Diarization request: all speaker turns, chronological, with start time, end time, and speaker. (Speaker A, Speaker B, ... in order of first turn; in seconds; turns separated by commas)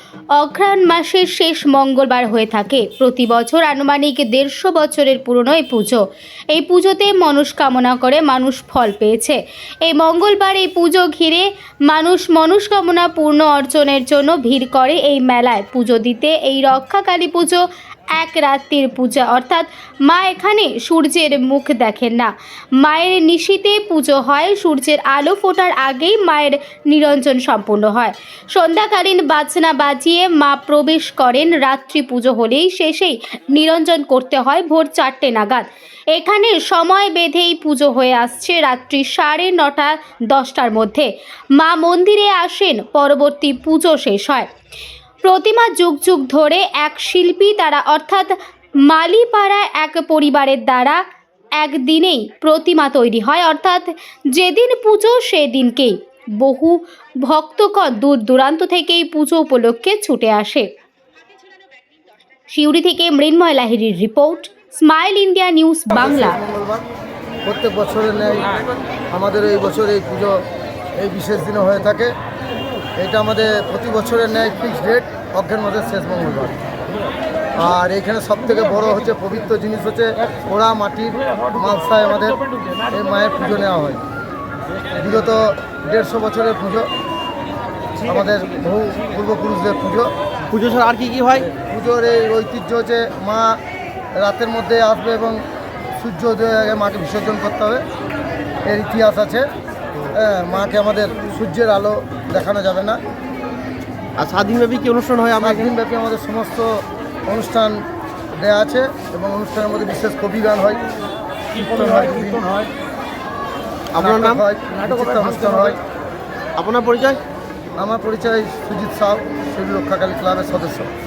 Speaker A: 0.3-44.5, Speaker A: 45.2-51.0, Speaker A: 51.6-60.7, Speaker A: 62.5-66.4, Speaker B: 65.9-66.9, Speaker B: 67.5-68.5, Speaker B: 69.1-70.4, Speaker B: 71.0-72.1, Speaker B: 73.0-76.6, Speaker B: 77.5-84.0, Speaker B: 85.0-86.9, Speaker B: 88.0-90.1, Speaker C: 90.5-91.5, Speaker B: 91.7-93.6, Speaker B: 94.2-95.4, Speaker B: 96.0-97.8, Speaker B: 98.7-99.5, Speaker B: 100.1-103.0, Speaker C: 104.2-105.7, Speaker B: 105.4-107.8, Speaker B: 108.3-110.8, Speaker B: 111.5-112.7, Speaker C: 113.9-114.4, Speaker B: 114.0-115.8, Speaker C: 115.0-115.8, Speaker C: 116.6-117.2, Speaker B: 117.8-120.9